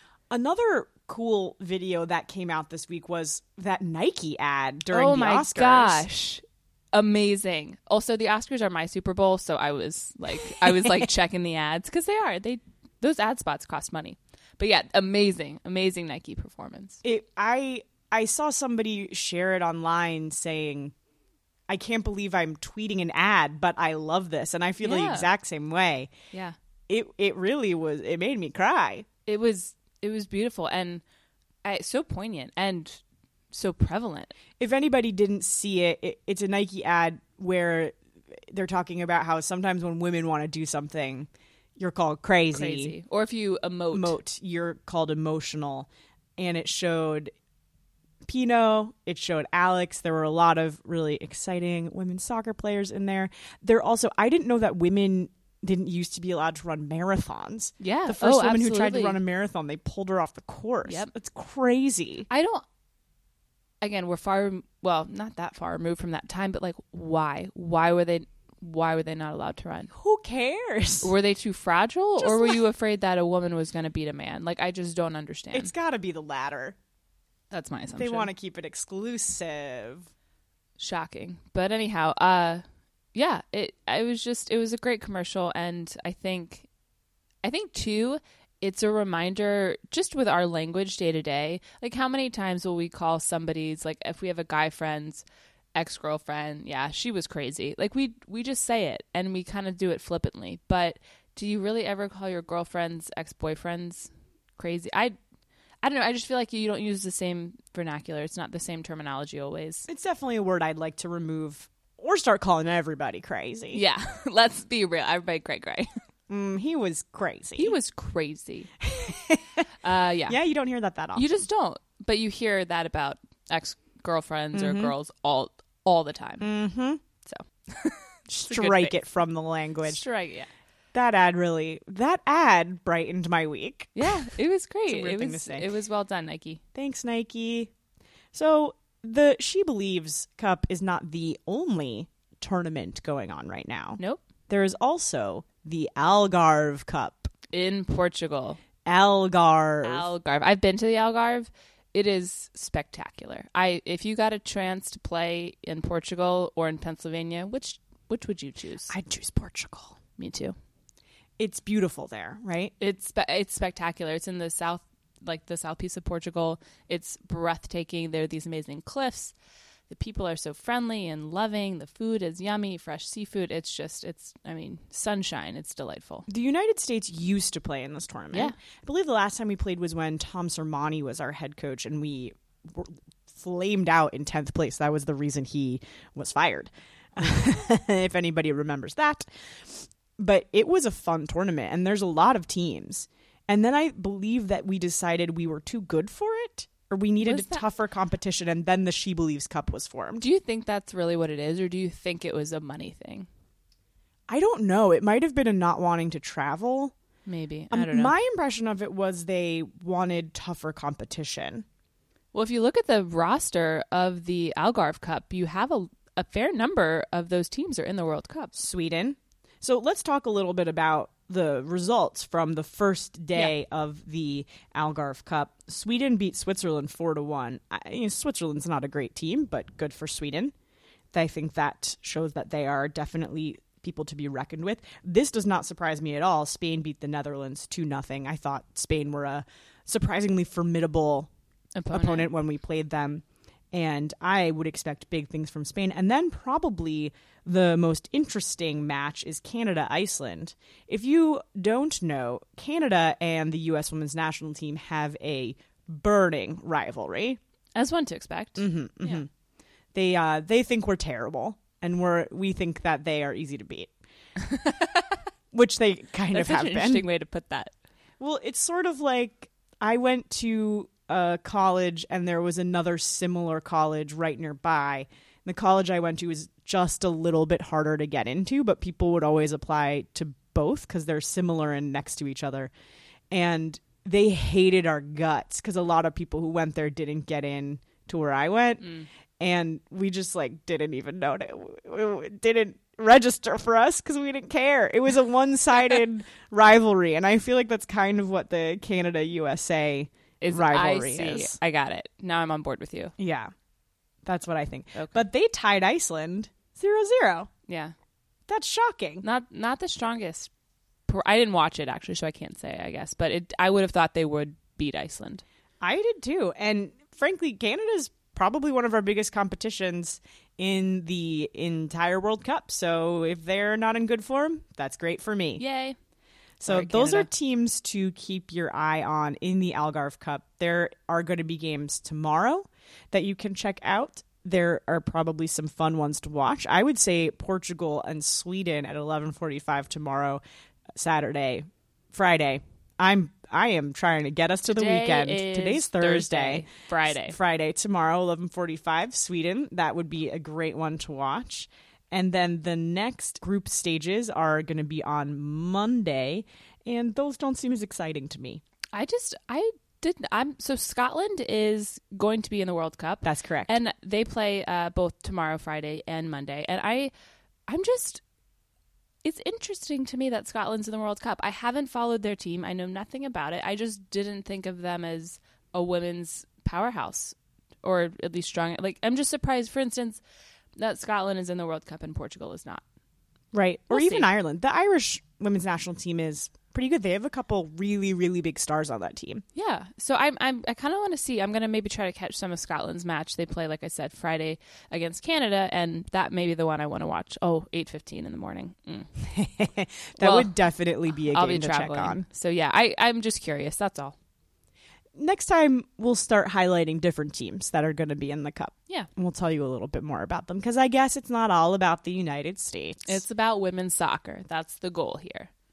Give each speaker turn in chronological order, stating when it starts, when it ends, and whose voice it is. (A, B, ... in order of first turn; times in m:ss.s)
0:00.3-0:06.1 A
0:04.9-0:17.0 B
0:10.5-0:11.1 A
0:17.0-0:20.9 A
0:21.7-0:26.1 A
0:24.8-0:25.3 B
0:26.9-0:29.1 A
0:29.3-0:31.0 B
0:31.6-0:34.3 B
0:34.6-0:43.0 A
0:42.5-0:44.2 B
0:43.9-0:47.3 A
0:48.2-1:02.3 A
0:57.8-0:59.2 B
1:00.8-1:01.1 B
1:02.3-1:02.6 B
1:03.8-1:09.9 B
1:09.9-1:11.1 A
1:11.0-1:15.7 B
1:12.2-1:12.6 A
1:15.5-1:16.8 A
1:17.5-1:18.3 B
1:17.9-1:20.1 A
1:20.8-1:22.6 B
1:23.1-1:26.7 B
1:27.4-1:45.2 B
1:45.8-1:49.9 B
1:49.9-1:53.8 A
1:53.7-1:55.9 B
1:56.3-1:57.8 A
1:57.6-1:58.7 B
1:58.8-1:59.6 A
1:59.8-2:00.4 B
2:00.3-2:01.3 A
2:01.2-2:06.5 B
2:04.5-2:04.9 A
2:06.4-2:07.0 A
2:07.2-2:09.0 B
2:08.3-2:10.0 A
2:09.8-2:10.5 B
2:10.9-2:14.3 A
2:14.0-2:16.6 B
2:14.9-2:15.7 A
2:16.8-2:17.7 A
2:18.3-2:27.3 A
2:27.5-2:28.6 B
2:28.8-2:30.1 A
2:29.8-2:39.0 B
2:38.9-2:40.0 A
2:40.2-2:40.6 B
2:41.4-2:42.7 A
2:42.8-2:49.3 B
2:49.9-2:56.3 B
2:56.3-3:20.2 A
3:17.2-3:17.6 B
3:20.2-3:23.3 B
3:24.3-3:26.9 A
3:27.3-3:28.2 B
3:27.7-3:31.6 A
3:32.3-3:38.5 B
3:38.5-3:50.5 A
3:51.1-4:01.3 A
4:01.8-4:02.3 B
4:01.9-4:17.4 A
4:17.8-4:19.2 B
4:18.6-4:19.3 A
4:19.9-4:23.9 A
4:24.4-4:25.2 B
4:25.5-4:27.1 A
4:26.3-4:27.7 B
4:28.2-4:42.7 A
4:43.3-5:01.6 A
5:00.4-5:03.1 B
5:03.2-5:03.5 A
5:04.2-5:07.5 A
5:05.0-5:05.2 B
5:07.7-5:07.9 B
5:08.5-5:09.2 A
5:09.2-5:10.5 B
5:11.1-5:15.4 B
5:15.8-5:25.6 A
5:25.6-5:26.0 B
5:26.6-5:40.4 A
5:26.7-5:27.3 B
5:40.9-5:58.6 A
5:44.7-5:47.4 B
5:58.9-6:07.1 B
6:03.2-6:03.7 A
6:07.7-6:08.2 B
6:09.2-6:20.2 B
6:20.8-6:22.8 B
6:23.5-6:29.4 A
6:23.9-6:24.3 B
6:29.6-6:39.1 B
6:39.2-6:42.3 A
6:40.2-6:40.5 B
6:41.2-6:44.2 B
6:45.2-6:53.2 A
6:53.1-6:55.5 B